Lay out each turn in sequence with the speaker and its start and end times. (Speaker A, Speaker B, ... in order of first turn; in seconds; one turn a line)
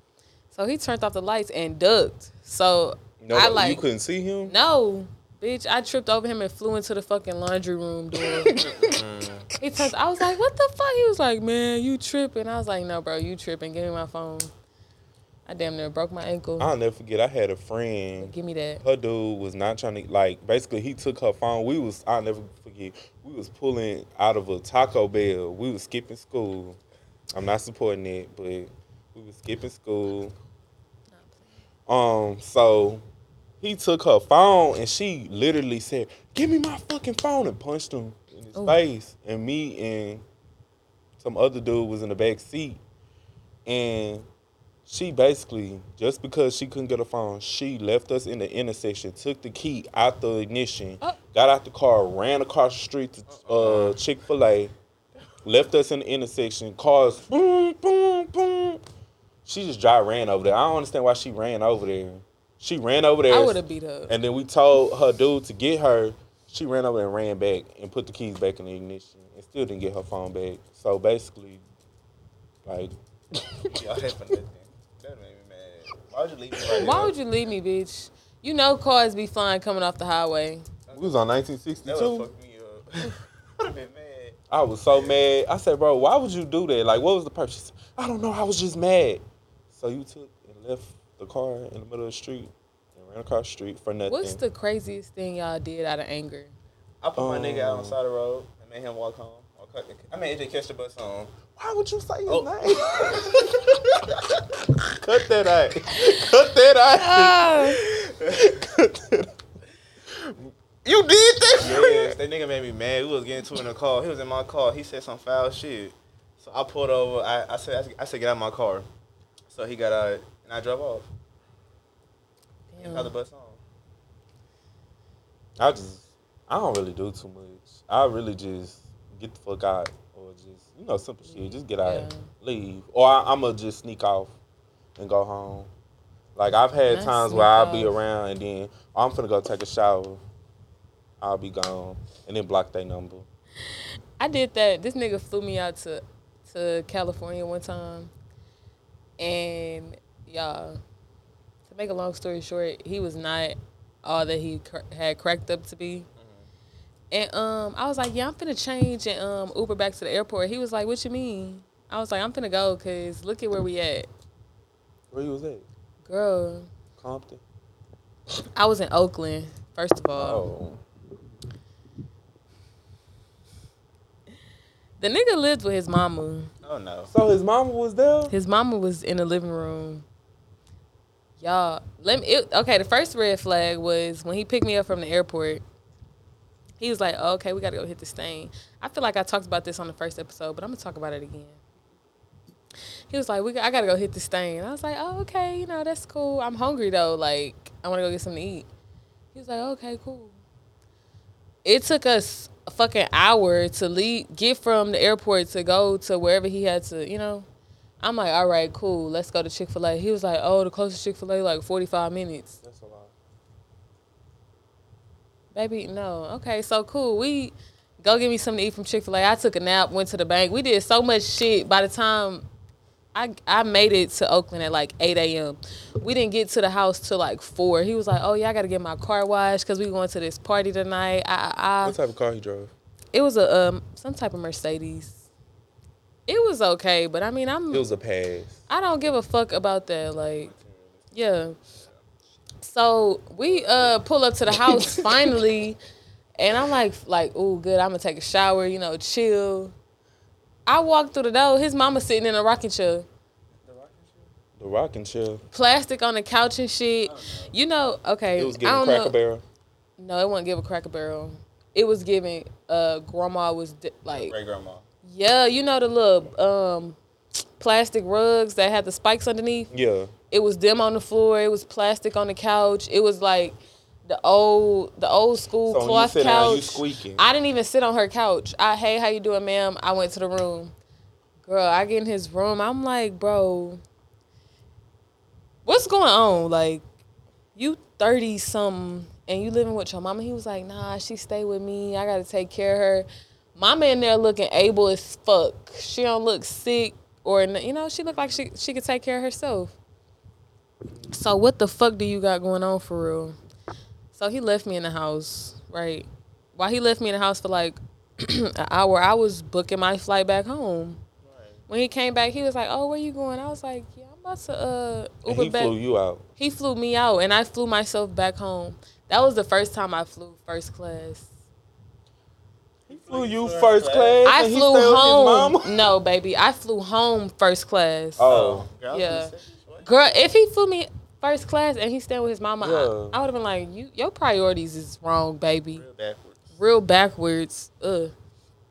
Speaker A: 0.5-3.8
Speaker B: 3.2-4.6
Speaker A: 4.5-8.6
Speaker B: 8.2-8.9
Speaker C: 8.6-9.5
Speaker A: 9.6-14.5
Speaker A: 15.5-16.7
Speaker B: 16.6-26.8
Speaker A: 18.2-18.8
Speaker B: 27.3-30.4
Speaker A: 31.1-31.5
Speaker B: 31.9-33.0
Speaker B: 33.6-40.2
Speaker B: 41.2-42.8
Speaker B: 43.7-44.3
Speaker B: 44.9-54.7
Speaker C: 53.3-54.0
Speaker B: 55.4-58.8
Speaker B: 59.5-71.6
Speaker A: 63.3-64.1
Speaker B: 72.7-73.7
Speaker C: 73.6-77.2
Speaker B: 76.6-77.1
Speaker A: 76.8-80.7
Speaker C: 80.9-81.2
Speaker B: 80.9-82.3
Speaker C: 81.9-84.4
Speaker B: 84.5-94.4
Speaker A: 94.1-96.5
Speaker C: 97.0-101.3
Speaker B: 97.2-98.0
Speaker B: 101.5-103.7
Speaker C: 102.3-103.7
Speaker B: 105.0-109.3
Speaker A: 106.9-107.8
Speaker B: 110.1-112.2
Speaker C: 111.6-118.9
Speaker C: 119.5-121.1
Speaker A: 122.7-123.1
Speaker C: 122.8-123.6
Speaker B: 125.6-134.3
Speaker A: 131.3-132.3
Speaker B: 135.0-135.7
Speaker B: 136.4-140.2
Speaker A: 136.9-138.0
Speaker B: 141.2-143.3
Speaker A: 144.2-148.1
Speaker A: 149.2-150.8
Speaker A: 151.7-156.1
Speaker C: 156.2-156.5
Speaker A: 157.1-164.1
Speaker B: 165.1-165.7
Speaker A: 166.1-166.7
Speaker B: 167.0-167.4
Speaker A: 168.6-170.5
Speaker B: 170.2-170.8
Speaker A: 175.0-176.5
Speaker C: 176.6-177.1
Speaker B: 177.1-178.3
Speaker A: 178.3-180.1
Speaker A: 181.4-185.6
Speaker A: 186.8-191.6
Speaker A: 193.1-198.7
Speaker A: 199.3-200.4
Speaker A: 201.7-207.5
Speaker A: 208.0-212.6
Speaker B: 212.6-213.1
Speaker A: 215.5-222.4
Speaker A: 223.1-232.0
Speaker B: 231.8-232.7
Speaker A: 233.1-235.2
Speaker A: 236.3-237.9
Speaker B: 237.7-238.6
Speaker A: 238.7-240.5
Speaker C: 240.4-241.1
Speaker A: 241.1-241.6
Speaker C: 241.7-242.0
Speaker A: 242.6-245.8
Speaker C: 243.4-244.0
Speaker B: 244.5-245.4
Speaker A: 246.4-249.7
Speaker A: 250.7-253.1
Speaker C: 253.6-254.3
Speaker B: 254.6-255.4
Speaker A: 255.5-259.1
Speaker C: 257.0-257.6
Speaker B: 258.4-259.4
Speaker A: 260.0-264.4
Speaker C: 264.1-264.9
Speaker A: 265.0-267.0
Speaker A: 267.6-269.7
Speaker B: 269.7-270.1
Speaker A: 270.3-280.7
Speaker B: 275.7-277.2
Speaker A: 281.4-283.8
Speaker A: 285.7-286.8
Speaker A: 287.6-299.8
Speaker A: 301.1-303.4
Speaker A: 304.1-311.0
Speaker C: 311.2-311.6
Speaker A: 311.7-315.7
Speaker B: 315.3-316.2
Speaker A: 316.4-321.3
Speaker C: 322.9-324.3
Speaker B: 322.9-325.9
Speaker A: 324.2-328.3
Speaker B: 328.2-328.7
Speaker C: 328.2-329.9
Speaker A: 328.9-329.3
Speaker A: 329.8-335.8
Speaker B: 332.6-333.2
Speaker C: 335.7-336.6
Speaker A: 336.6-338.1